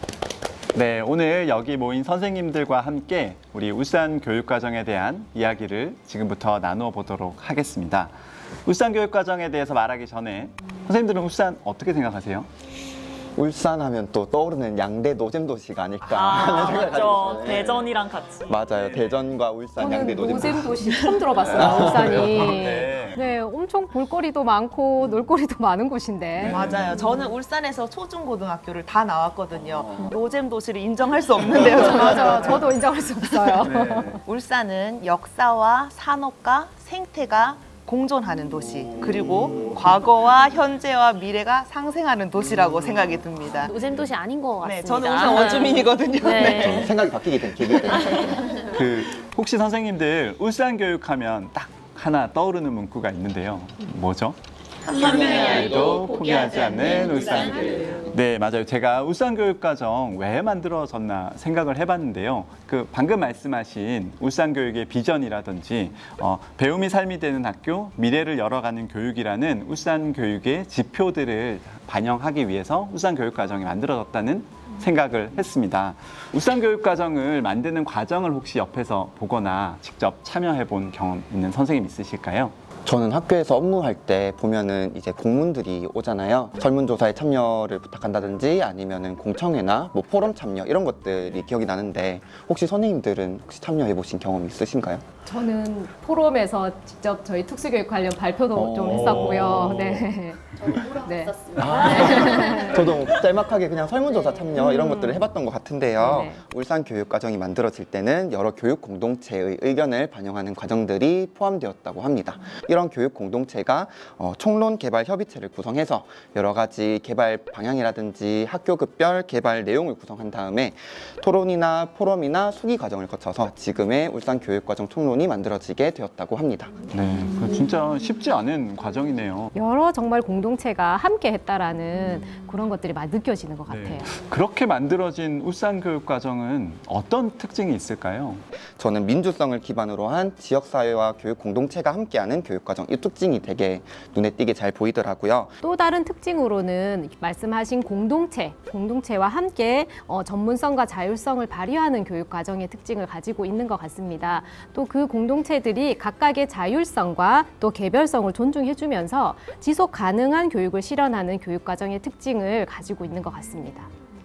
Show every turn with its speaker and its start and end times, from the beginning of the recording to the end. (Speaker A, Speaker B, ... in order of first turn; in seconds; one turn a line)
Speaker A: 0.7-8.1
Speaker A: 8.7-12.5
Speaker B: 13.3-17.9
Speaker C: 16.0-18.6
Speaker B: 18.4-20.7
Speaker A: 18.7-19.2
Speaker D: 19.8-26.6
Speaker A: 21.5-23.2
Speaker B: 21.5-22.5
Speaker A: 26.4-26.9
Speaker E: 26.5-33.7
Speaker D: 31.6-34.2
Speaker A: 33.7-34.1
Speaker E: 34.2-43.7
Speaker F: 43.6-46.8
Speaker E: 44.6-47.0
Speaker B: 46.4-48.6
Speaker E: 47.7-48.2
Speaker A: 48.6-54.4
Speaker E: 54.8-57.5
Speaker B: 55.0-55.6
Speaker A: 55.0-82.5
Speaker B: 82.8-95.0
Speaker D: 95.2-102.9
Speaker B: 98.5-99.7
Speaker A: 99.1-100.0
Speaker B: 101.6-126.8
Speaker D: 104.5-105.2
Speaker D: 106.0-106.4
Speaker A: 126.9-129.5
Speaker D: 129.5-134.1
Speaker A: 133.7-138.4
Speaker B: 138.8-145.5
Speaker D: 145.6-163.9